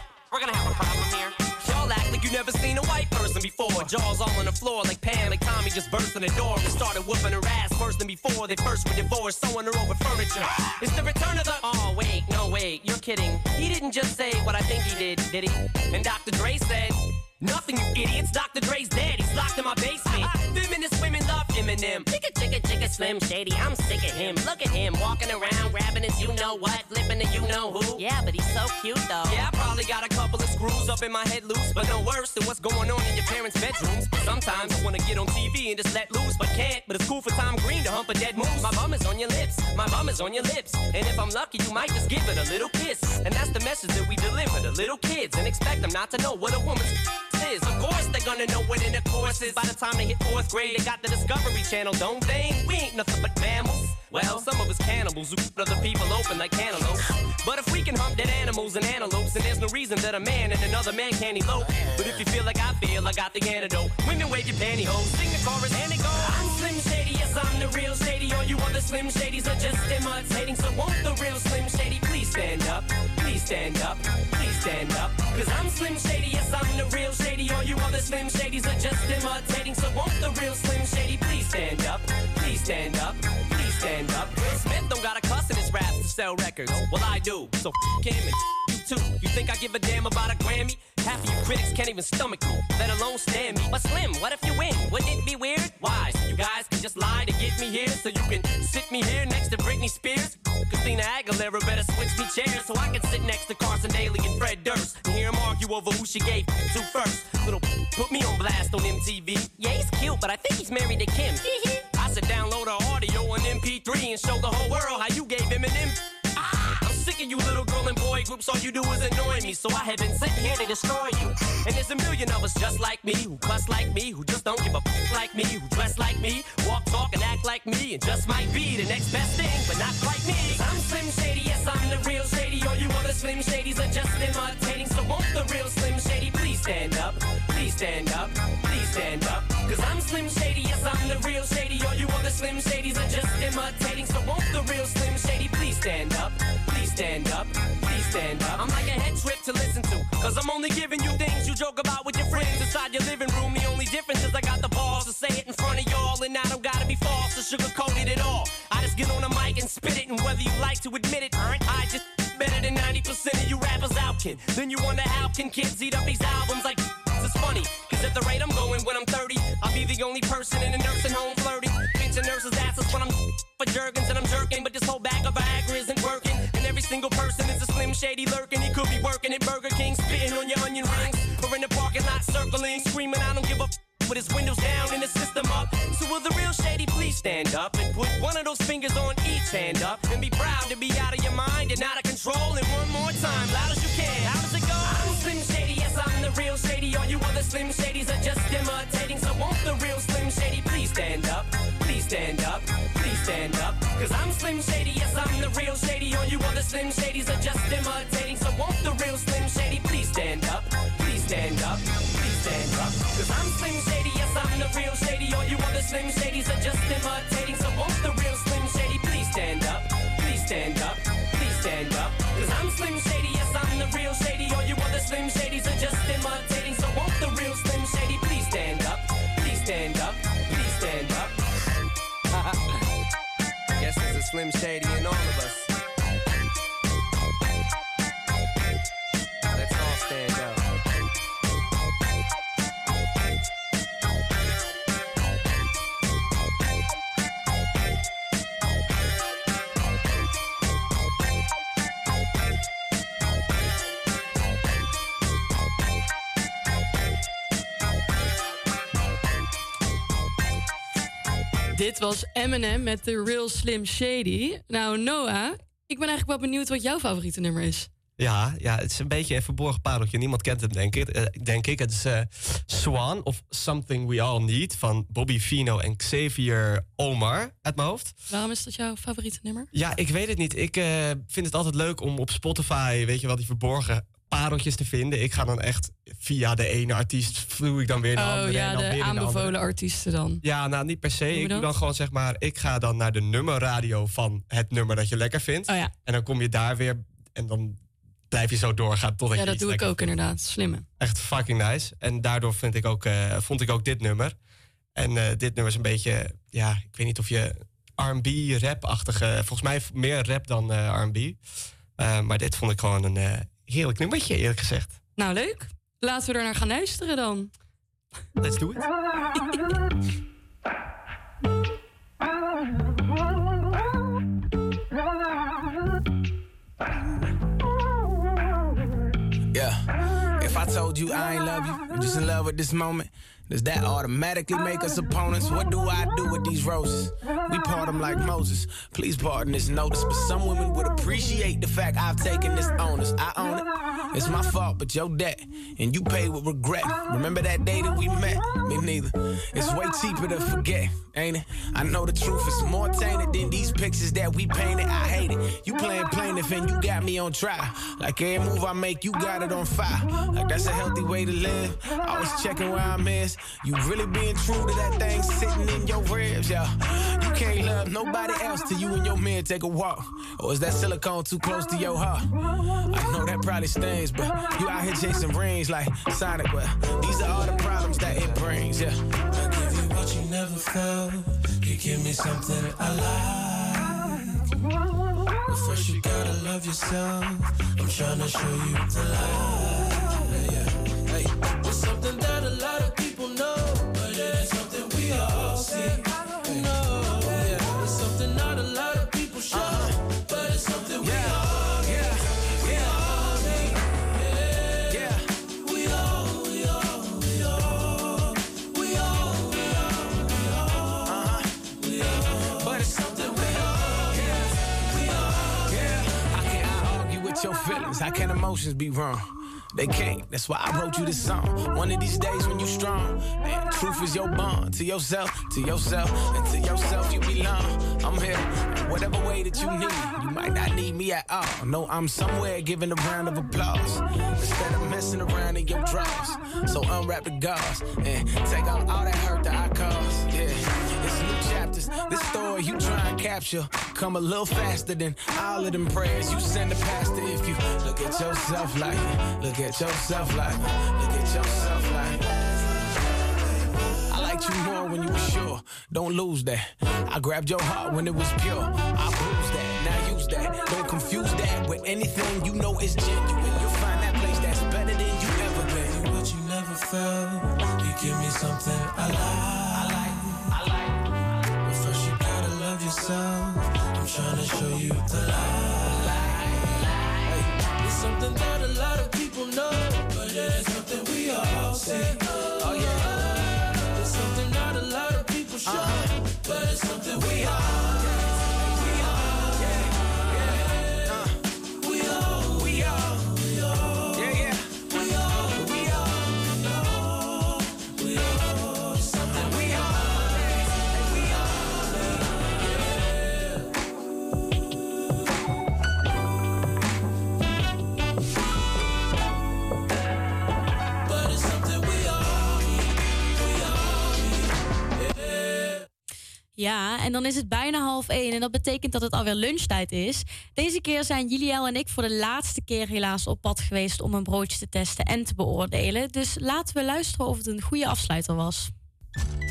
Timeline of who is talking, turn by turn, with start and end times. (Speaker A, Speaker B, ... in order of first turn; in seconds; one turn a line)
Speaker A: 0.4-1.4
Speaker B: 1.6-28.1
Speaker A: 28.2-29.4
Speaker B: 29.2-231.3
Speaker C: 261.8-267.9
Speaker D: 268.2-278.1
Speaker C: 278.3-279.7
Speaker D: 279.7-289.6
Speaker C: 288.2-290.4
Speaker D: 290.4-297.8
Speaker C: 291.3-291.7
Speaker D: 298.3-300.0
Speaker C: 299.4-300.9
Speaker D: 301.0-304.4
Speaker D: 305.0-311.4
Speaker D: 312.0-314.9
Speaker C: 315.2-317.5
Speaker D: 318.4-318.8
Speaker E: 329.5-329.9
Speaker E: 330.4-372.3
Speaker E: 372.9-379.0
Speaker F: 379.3-384.1
Speaker F: 385.5-390.7
Speaker F: 391.6-402.0
Speaker E: 399.5-400.0
Speaker E: 401.0-403.0
Speaker F: 402.7-403.7
Speaker E: 404.9-405.2
Speaker F: 405.6-407.9
Speaker F: 408.7-410.6
Speaker E: 411.1-411.5
Speaker E: 412.6-452.2
Speaker F: 412.8-414.1
Speaker E: 454.1-466.0
Speaker F: 465.9-470.1
Speaker F: 471.6-476.2
Speaker F: 477.8-483.4
Speaker E: 482.6-483.0
Speaker F: 483.9-487.9
Speaker E: 485.6-486.1
Speaker E: 491.1-491.4
Speaker F: 491.8-492.9
Speaker E: 492.6-493.0
Speaker F: 493.7-494.2
Speaker E: 494.1-494.7
Speaker F: 495.0-495.7
Speaker E: 499.4-499.9
Speaker F: 511.1-514.4
Speaker F: 515.1-515.8
Speaker G: 516.6-528.7